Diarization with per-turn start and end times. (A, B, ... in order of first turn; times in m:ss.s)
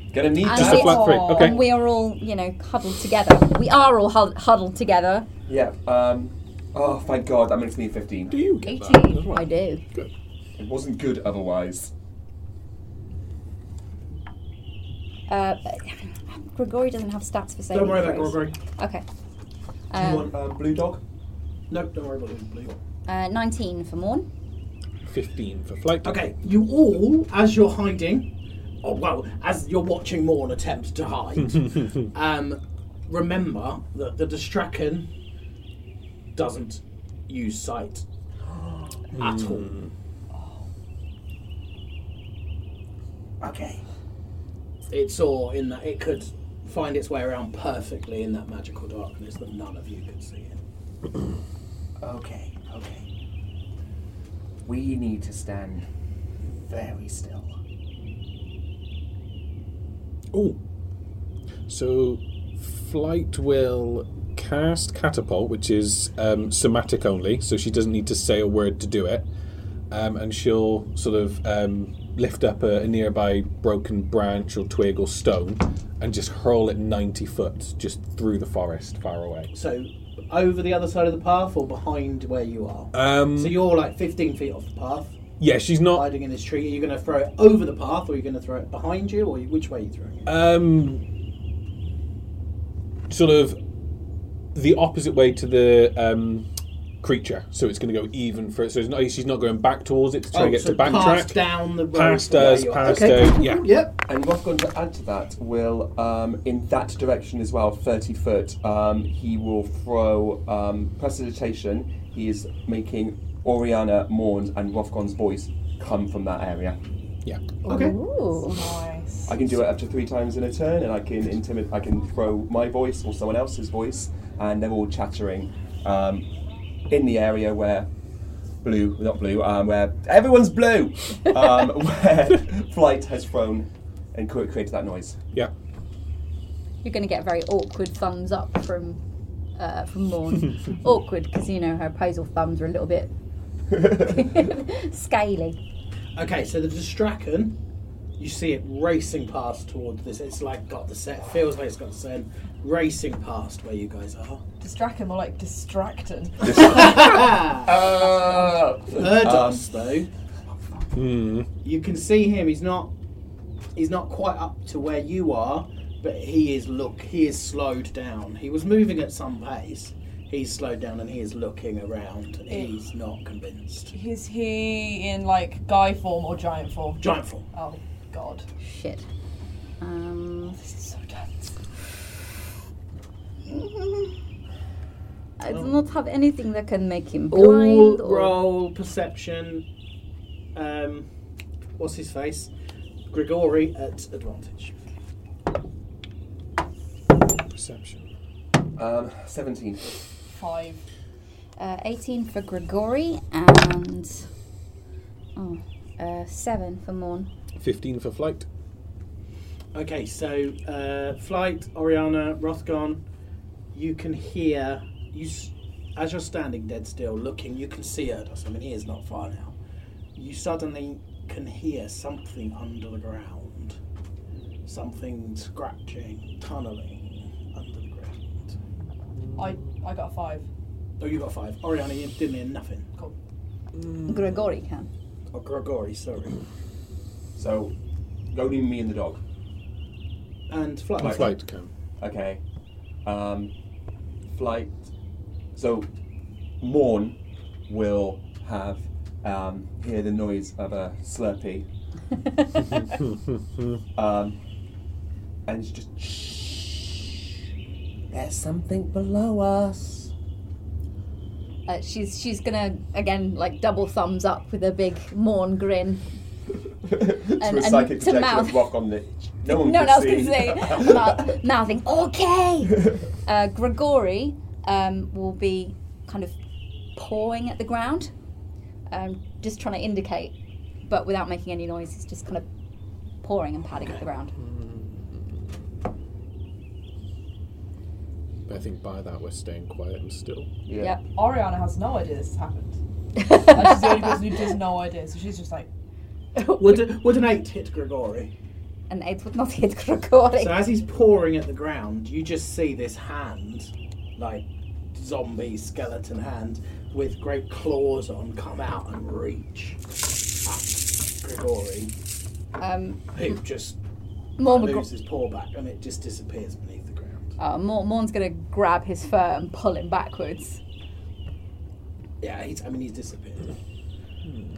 0:00.1-0:01.2 A
0:00.4-0:05.3 B
0:00.5-0:01.7 C
0:00.6-0:01.7 D
0:05.5-0:08.4 A
0:08.3-0:10.1 C
0:08.6-0:09.8 B
0:10.6-0:11.9 A
0:15.3-0:19.0 B
0:17.7-0:18.6 E
0:19.9-0:20.3 B
0:19.9-0:21.0 A
0:21.7-0:22.8 E
0:23.1-0:24.3 B
0:25.0-0:26.2 C
0:26.0-0:28.3 E
0:28.8-0:35.1 E
0:36.4-0:38.1 E
0:38.5-0:39.0 A
0:39.1-0:39.9 C
0:39.2-0:39.8 E
0:43.4-0:43.8 A
0:44.9-0:50.6 E
0:52.0-0:53.1 A
0:54.7-0:55.9 A
0:56.7-0:57.6 A
1:00.3-1:00.6 C
1:01.7-1:09.3 C
1:09.9-1:19.5 C
1:19.5-1:25.2 E
1:22.9-1:23.6 C
1:25.4-1:26.1 C
1:25.9-1:30.3 E
1:30.3-1:31.0 C
1:33.1-1:33.6 C
1:34.5-1:36.5 C
1:37.0-1:43.7 C
1:40.3-1:44.0 E
1:44.1-1:56.8 A
1:57.2-1:57.6 C
1:57.7-1:58.0 E
1:57.7-1:58.6 B
1:58.4-1:59.5 D
1:59.3-2:06.3 A
2:06.9-2:07.9 A
2:08.6-2:15.2 A
2:16.8-2:19.0 B
2:19.6-2:23.1 B
2:23.8-2:25.6 B
2:26.2-2:27.6 E
2:28.2-2:34.4 E
2:34.6-2:36.8 D
2:36.4-2:39.7 A
2:36.6-2:37.7 E
2:38.9-2:40.1 E
2:40.6-2:40.9 A
2:40.9-2:41.5 C
2:41.6-2:42.9 E
2:43.8-2:54.0 E
2:53.9-2:58.5 D
2:57.0-2:57.5 E
2:58.6-2:59.0 B
2:59.8-3:00.6 B
3:00.5-3:01.5 D
3:03.5-3:04.2 B
3:05.4-3:08.3 B
3:07.3-3:09.7 E
3:10.6-3:11.1 E
3:11.8-3:12.5 E
3:13.1-3:14.8 E
3:17.3-3:18.1 C
3:18.8-3:20.0 A
3:20.3-3:20.8 D
3:21.6-3:24.2 B
3:25.4-3:27.3 B
3:27.6-3:28.5 C
3:29.7-3:33.0 E
3:33.7-3:39.5 E
3:40.2-3:43.8 E
3:44.7-3:48.5 E
3:49.2-3:49.4 C
3:49.4-3:50.5 D
3:51.0-3:52.9 E
3:53.8-3:54.1 C
3:54.1-3:54.9 B
3:55.3-3:56.4 E
3:57.4-3:57.8 A
3:58.3-3:59.2 A
4:00.5-4:01.3 E
4:01.0-4:01.7 C
4:01.0-4:01.3 A
4:02.0-4:02.4 A
4:03.0-4:03.5 A
4:04.3-4:04.9 A
4:05.6-4:05.9 A
4:06.6-4:11.7 A
4:14.0-4:14.4 A
4:15.5-4:17.2 A
4:18.1-4:20.1 A
4:21.7-4:26.0 B
4:26.8-4:31.4 A
4:27.3-4:28.7 B
4:29.5-4:36.4 B
4:37.0-4:38.1 B
4:38.9-4:40.4 B
4:40.9-4:42.5 B
4:43.2-4:44.4 B
4:44.4-4:45.4 C
4:48.5-4:50.5 C
4:50.7-4:51.0 A
4:51.2-4:55.7 D
4:53.2-4:53.9 B
4:56.4-4:56.8 B
4:56.6-4:58.3 E
4:58.9-5:00.6 B
5:00.4-5:09.8 E
5:10.4-5:11.9 E
5:12.6-5:13.4 B
5:13.1-5:13.8 E
5:14.4-5:14.9 B
5:14.4-5:17.2 E
5:17.4-5:20.6 B
5:22.2-5:23.5 E